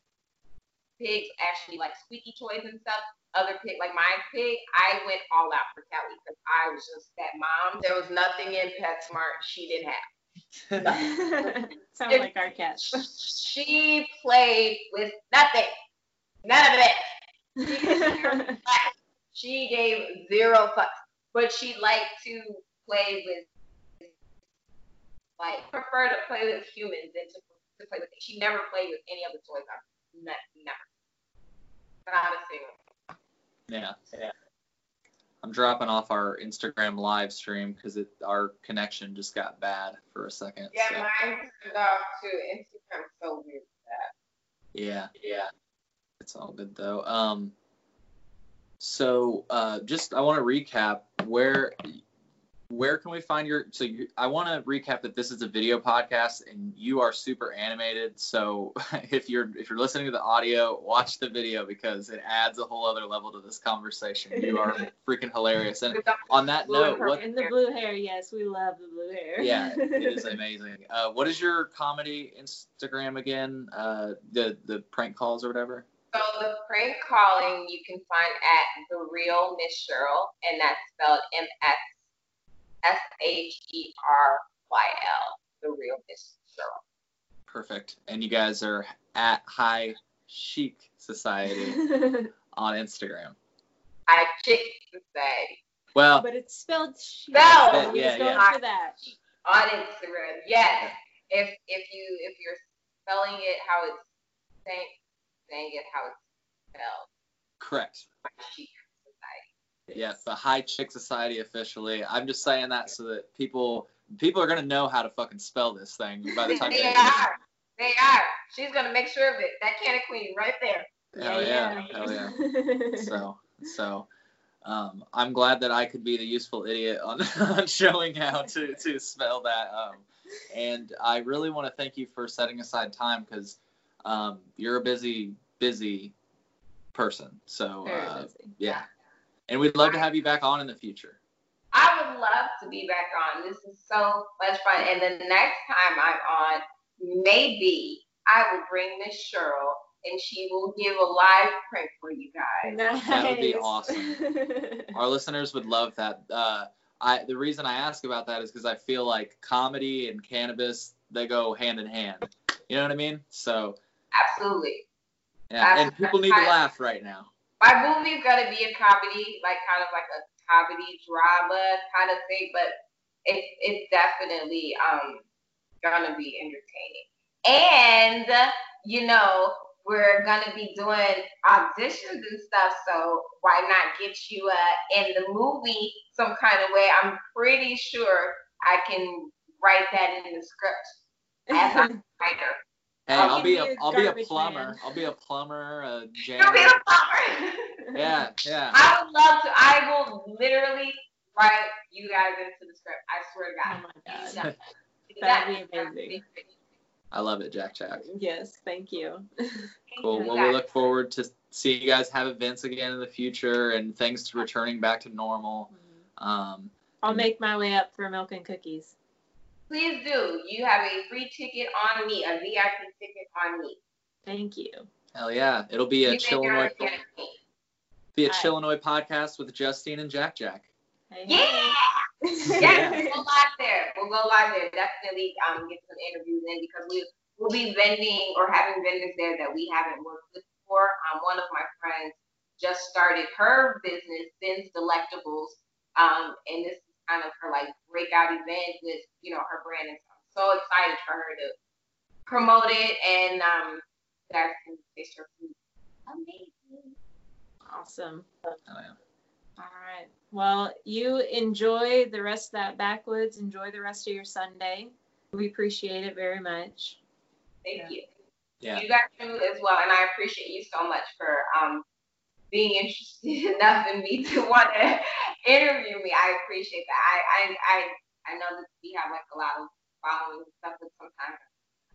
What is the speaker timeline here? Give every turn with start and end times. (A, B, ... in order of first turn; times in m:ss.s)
0:01.0-0:10.0 A
0:10.7-0:10.9 B
0:10.8-0:11.5 A
0:11.0-0:13.1 C
0:12.1-0:15.7 A
0:16.4-0:17.1 A
0:17.6-0:18.6 C
0:17.7-0:23.4 A
0:25.4-0:30.8 A
0:32.1-0:32.7 A
0:33.7-0:34.3 B
0:35.4-0:41.1 B
0:40.7-0:44.1 A
0:44.7-0:45.5 B
0:46.2-0:47.5 B
0:48.8-0:52.0 B
0:52.7-1:07.2 B
1:04.4-1:04.8 C
1:05.9-1:07.5 A
1:07.2-1:10.3 C
1:09.4-1:15.8 B
1:16.1-1:21.8 A
1:22.8-1:26.8 A
1:27.5-1:31.8 B
1:31.7-1:32.3 C
1:32.5-1:33.4 B
1:34.1-1:35.6 A
1:35.9-1:36.2 B
1:36.2-1:39.0 C
1:37.3-1:44.0 A
1:37.7-1:38.4 B
1:44.6-1:44.9 A
1:45.5-1:46.2 A
1:46.7-1:47.1 A
1:47.6-1:48.1 B
1:48.2-1:49.5 A
1:49.9-1:50.1 C
1:49.9-1:57.2 B
1:56.4-1:56.7 C
1:56.5-2:02.1 A
2:01.2-2:02.4 B
2:01.2-2:03.2 C
2:02.9-2:04.1 B
2:04.6-2:16.1 B
2:16.9-2:18.8 B
2:17.8-2:18.6 C
2:19.5-2:21.2 B
2:21.7-2:32.8 A
2:32.6-2:34.9 C
2:33.0-2:34.2 B
2:34.9-2:43.8 B
2:44.1-2:44.8 A
2:45.5-2:47.3 B
2:45.6-2:46.5 A
2:47.6-2:52.7 A
2:53.2-2:55.2 A
2:55.8-3:10.9 A
3:11.5-3:12.0 C
3:11.5-3:13.5 A
3:13.1-3:16.7 B
3:13.1-3:14.8 C
3:16.4-3:17.8 A
3:17.9-3:18.8 B
3:18.7-3:24.6 A
3:23.6-3:24.4 C
3:25.1-3:26.5 A
3:25.2-3:26.2 C
3:27.1-3:28.1 B
3:28.0-3:30.3 C
3:29.9-3:30.6 A
3:30.0-3:37.2 B
3:35.7-3:36.0 C
3:37.0-3:38.9 C
3:39.7-3:43.8 A
3:44.2-3:44.9 C
3:45.1-3:46.9 B
3:46.0-3:47.4 A
3:48.1-3:50.7 B
3:48.3-3:48.5 C
3:51.1-3:53.2 C
3:51.3-3:52.0 A
3:52.5-3:53.1 B
3:52.6-4:11.5 A
4:12.3-4:15.5 A
4:16.1-4:17.0 A
4:17.7-4:18.3 C
4:18.7-4:19.0 B
4:19.6-4:27.0 C
4:27.6-4:28.0 A
4:28.7-4:31.8 A
4:32.5-4:41.4 A